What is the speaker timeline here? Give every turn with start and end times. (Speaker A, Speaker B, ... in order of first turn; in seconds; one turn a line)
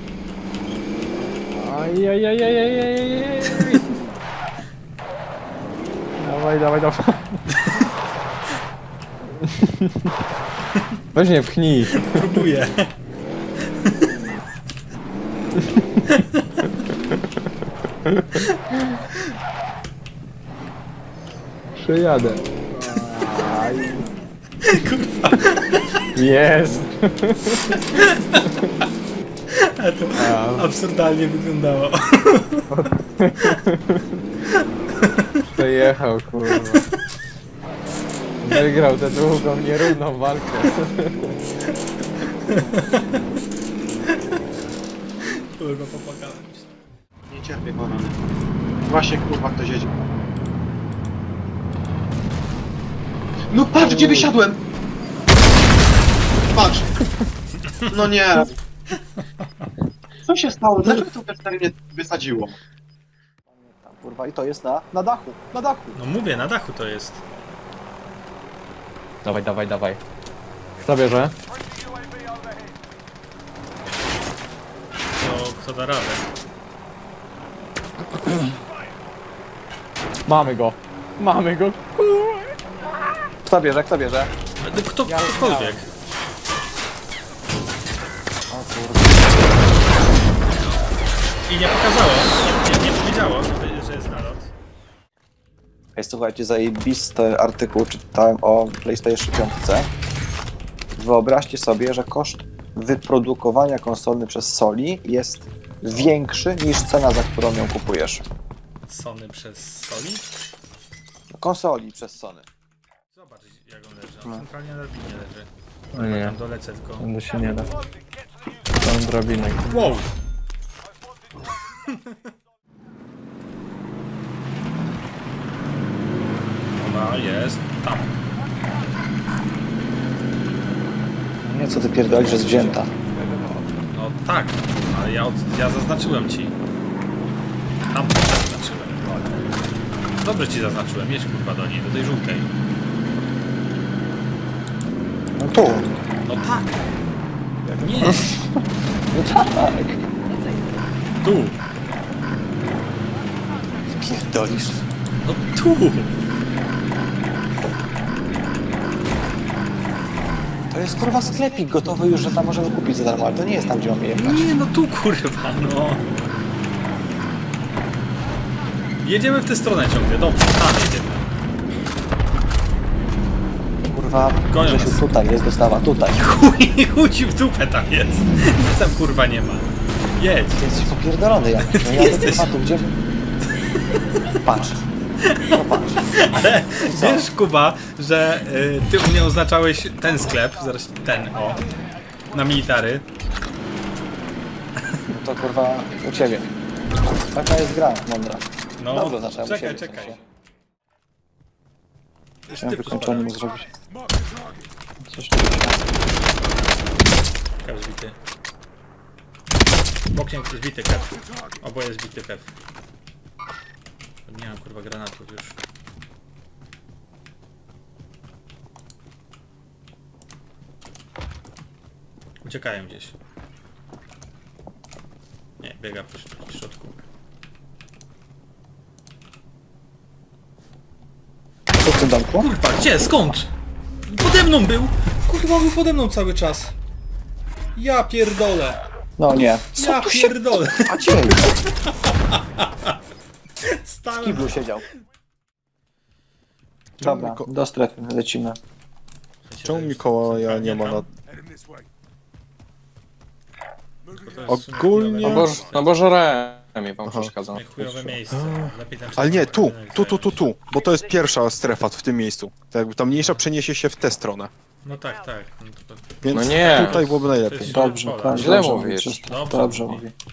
Speaker A: 1.3-3.9
Speaker A: 6.2-7.4
Speaker B: 7.6-7.9
Speaker A: 9.3-9.8
Speaker A: 11.1-12.4
Speaker B: 11.9-12.9
Speaker B: 13.8-14.1
Speaker A: 15.6-15.8
Speaker B: 16.1-16.7
Speaker A: 18.0-18.4
Speaker B: 18.4-19.2
Speaker A: 21.8-24.0
Speaker B: 24.6-26.0
Speaker A: 26.1-27.8
Speaker B: 27.7-28.9
Speaker B: 29.5-32.7
Speaker A: 30.2-30.7
Speaker A: 32.7-34.1
Speaker B: 34.5-35.8
Speaker A: 35.5-36.8
Speaker A: 38.4-41.3
Speaker B: 42.2-43.2
Speaker B: 44.1-44.4
Speaker B: 45.2-46.7
Speaker C: 47.3-48.1
Speaker C: 48.9-50.0
Speaker C: 53.5-54.6
Speaker D: 53.8-54.1
Speaker C: 56.5-56.9
Speaker C: 57.9-58.5
Speaker B: 59.2-59.7
Speaker C: 60.2-62.5
Speaker D: 63.5-66.0
Speaker B: 65.9-67.2
Speaker A: 69.2-70.0
Speaker A: 70.8-71.3
Speaker B: 75.2-76.2
Speaker A: 80.3-82.4
Speaker D: 83.4-84.3
Speaker B: 84.6-85.8
Speaker A: 85.0-85.8
Speaker D: 88.5-89.6
Speaker B: 91.5-94.5
Speaker D: 96.0-99.9
Speaker D: 101.0-108.2
Speaker B: 105.9-106.1
Speaker B: 108.9-110.2
Speaker D: 111.3-112.5
Speaker B: 113.1-117.1
Speaker A: 115.9-116.3
Speaker A: 117.0-117.7
Speaker A: 118.8-119.9
Speaker B: 119.7-120.1
Speaker B: 121.9-122.2
Speaker B: 126.8-128.2
Speaker D: 131.5-132.9
Speaker B: 133.9-136.6
Speaker B: 137.9-139.2
Speaker B: 140.2-142.5
Speaker D: 145.4-145.9
Speaker B: 146.2-146.8
Speaker B: 147.7-148.3
Speaker D: 148.0-148.3
Speaker D: 149.1-150.0
Speaker B: 151.2-151.6
Speaker D: 153.9-154.8
Speaker B: 155.2-156.1
Speaker D: 160.7-164.5
Speaker B: 164.1-166.0
Speaker B: 169.0-171.2
Speaker D: 173.9-176.3
Speaker B: 174.5-175.1
Speaker B: 176.2-180.8
Speaker D: 180.6-182.9
Speaker B: 181.6-182.5
Speaker D: 184.4-184.8
Speaker D: 185.4-187.3
Speaker B: 186.2-191.6
Speaker B: 192.3-193.1
Speaker D: 195.1-196.5
Speaker D: 197.3-200.2
Speaker B: 198.8-200.2
Speaker B: 202.5-203.3
Speaker D: 202.6-203.7
Speaker D: 205.0-205.8
Speaker B: 207.6-208.2
Speaker B: 210.1-212.5
Speaker B: 214.3-215.6
Speaker B: 222.4-223.1
Speaker B: 225.6-227.0
Speaker D: 231.8-232.5
Speaker B: 232.4-233.5
Speaker B: 234.1-236.7
Speaker B: 237.8-238.8
Speaker D: 239.2-241.5
Speaker B: 239.8-242.9
Speaker B: 243.6-244.8
Speaker D: 244.2-244.8
Speaker E: 247.0-247.5
Speaker D: 247.0-248.6
Speaker B: 249.4-251.1
Speaker E: 249.6-251.1
Speaker B: 254.1-255.9
Speaker E: 254.5-255.5
Speaker A: 255.2-258.1
Speaker E: 257.0-257.3
Speaker B: 257.5-260.4
Speaker E: 258.3-264.5
Speaker B: 263.1-263.4
Speaker B: 264.8-268.5
Speaker E: 266.2-267.9
Speaker A: 266.3-267.0
Speaker D: 267.6-270.1
Speaker A: 268.3-269.2
Speaker B: 269.2-270.1